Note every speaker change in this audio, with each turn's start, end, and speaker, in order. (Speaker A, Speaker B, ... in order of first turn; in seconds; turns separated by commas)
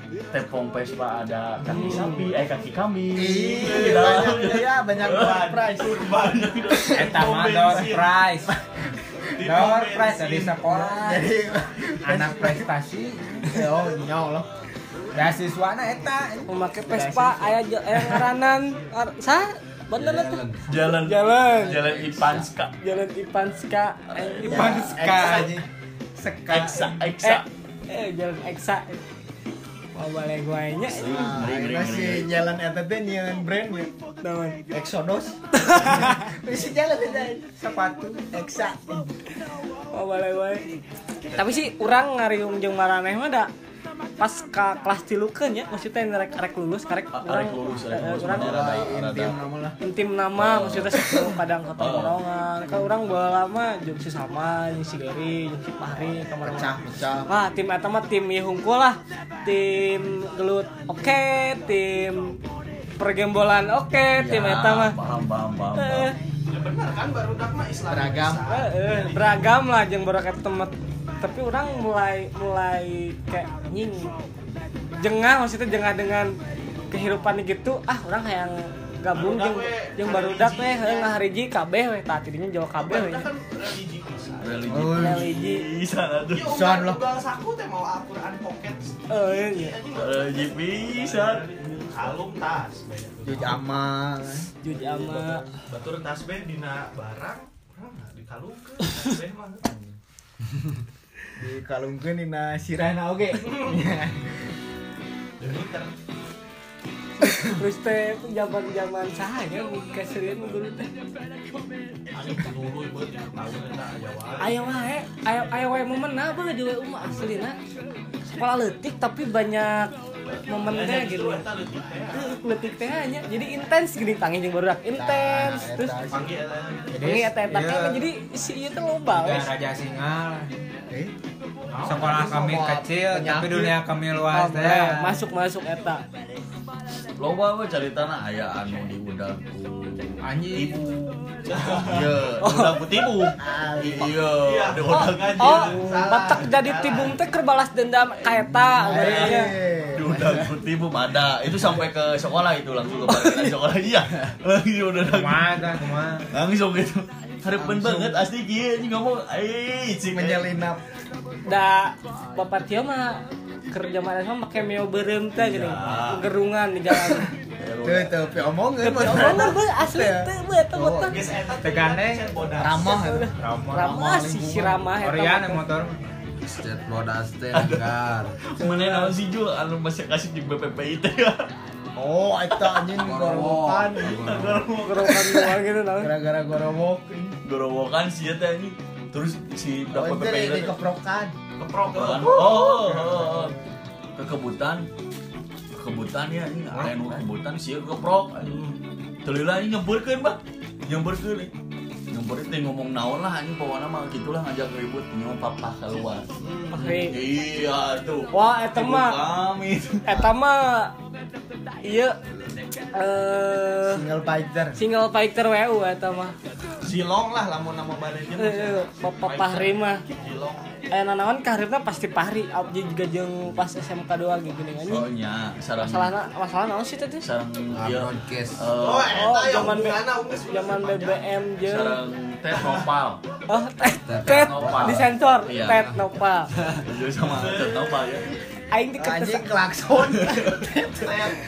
Speaker A: 0.3-7.1, Speaker B: 1.7-2.3, Speaker C: 3.1-5.9, Speaker D: 3.6-8.2, Speaker E: 6.9-8.5, Speaker C: 8.5-9.2, Speaker D: 9.3-10.8, Speaker E: 9.4-11.3, Speaker C: 10.8-12.7, Speaker E: 12.0-13.7, Speaker C: 13.5-14.5, Speaker E: 15.1-16.5, Speaker B: 16.5-21.9, Speaker C: 16.9-17.6, Speaker A: 20.6-22.7, Speaker B: 22.8-25.0, Speaker A: 24.1-24.7, Speaker C: 24.4-25.7, Speaker E: 24.4-25.5, Speaker E: 26.2-26.9, Speaker A: 26.5-27.4, Speaker B: 27.2-29.0, Speaker B: 29.9-31.4, Speaker A: 31.0-32.3, Speaker C: 31.0-33.9, Speaker B: 34.2-34.6, Speaker C: 34.7-37.5, Speaker B: 35.6-36.3, Speaker E: 37.6-38.2, Speaker C: 38.2-39.1, Speaker B: 39.9-40.7, Speaker B: 41.3-43.5, Speaker D: 41.3-41.6, Speaker B: 44.2-48.5, Speaker A: 47.1-49.3, Speaker C: 48.2-49.8, Speaker B: 49.8-56.8, Speaker A: 50.4-51.2, Speaker A: 51.8-52.2, Speaker C: 56.4-57.3, Speaker B: 57.3-62.4, Speaker B: 63.0-64.9, Speaker A: 64.2-66.1, Speaker B: 65.8-66.2, Speaker D: 66.5-69.5, Speaker C: 67.9-68.5, Speaker B: 68.5-74.1, Speaker B: 75.0-76.3, Speaker B: 76.9-83.3, Speaker D: 79.1-81.2, Speaker D: 82.8-84.8, Speaker A: 84.4-86.5, Speaker C: 84.7-85.3, Speaker B: 84.9-85.7, Speaker D: 86.3-93.6, Speaker C: 86.4-87.0, Speaker B: 89.1-89.8, Speaker A: 89.9-91.4, Speaker C: 93.2-95.5, Speaker B: 94.6-95.4, Speaker D: 95.7-99.6, Speaker C: 99.6-100.0, Speaker C: 101.3-104.4, Speaker D: 105.4-105.9, Speaker B: 107.2-110.9, Speaker D: 112.1-114.7, Speaker B: 114.4-117.6, Speaker B: 118.2-119.9, Speaker B: 120.5-121.5, Speaker D: 120.5-122.3, Speaker B: 122.1-125.9, Speaker C: 124.9-126.3, Speaker D: 126.1-127.2, Speaker E: 126.9-128.1, Speaker B: 127.0-129.5, Speaker E: 129.1-130.5, Speaker D: 131.7-132.5, Speaker E: 131.8-135.2, Speaker C: 132.0-133.8, Speaker B: 134.3-136.0, Speaker A: 137.2-145.6, Speaker E: 140.2-140.9, Speaker D: 141.5-142.2, Speaker B: 142.5-142.7, Speaker C: 143.4-144.2, Speaker D: 144.3-147.2, Speaker B: 144.9-149.5, Speaker C: 145.7-146.3, Speaker C: 148.8-150.5, Speaker A: 148.9-149.4, Speaker A: 149.9-160.5, Speaker E: 155.0-156.3, Speaker C: 157.5-158.2, Speaker C: 160.1-160.8, Speaker B: 161.4-167.3, Speaker A: 165.3-166.3, Speaker A: 167.6-168.2, Speaker C: 167.8-171.3, Speaker B: 168.8-171.2, Speaker D: 171.1-172.9, Speaker E: 171.6-172.3, Speaker C: 172.6-174.8, Speaker B: 172.8-175.6, Speaker E: 173.4-174.0, Speaker E: 175.0-176.0, Speaker F: 176.4-178.4, Speaker A: 177.5-181.4, Speaker C: 181.9-184.2, Speaker F: 182.9-184.7, Speaker A: 184.0-185.4, Speaker D: 184.5-185.0, Speaker B: 184.8-186.1, Speaker C: 186.0-187.4, Speaker A: 187.4-190.7, Speaker C: 189.9-191.3, Speaker D: 191.6-193.0, Speaker A: 191.9-193.6, Speaker C: 192.8-193.5, Speaker A: 194.2-194.9, Speaker A: 195.7-198.6, Speaker A: 199.2-201.5, Speaker A: 202.1-210.2, Speaker D: 206.4-206.8, Speaker B: 206.7-207.2, Speaker B: 208.3-209.2, Speaker B: 210.1-210.9, Speaker B: 211.8-212.2, Speaker B: 212.9-214.0, Speaker C: 213.9-214.8, Speaker B: 214.8-216.3, Speaker D: 216.8-220.7, Speaker B: 218.4-220.0, Speaker B: 220.9-225.1, Speaker A: 224.9-226.1, Speaker B: 225.8-227.2, Speaker A: 227.2-229.2, Speaker F: 227.7-228.7, Speaker D: 228.7-231.3, Speaker B: 229.1-232.0, Speaker A: 231.7-233.2, Speaker D: 232.5-232.8, Speaker B: 233.5-236.5, Speaker F: 234.0-235.1, Speaker A: 234.2-235.9, Speaker A: 236.8-238.3, Speaker D: 237.2-238.2, Speaker B: 238.7-239.5, Speaker C: 239.0-241.3, Speaker A: 240.2-240.5, Speaker D: 240.8-241.4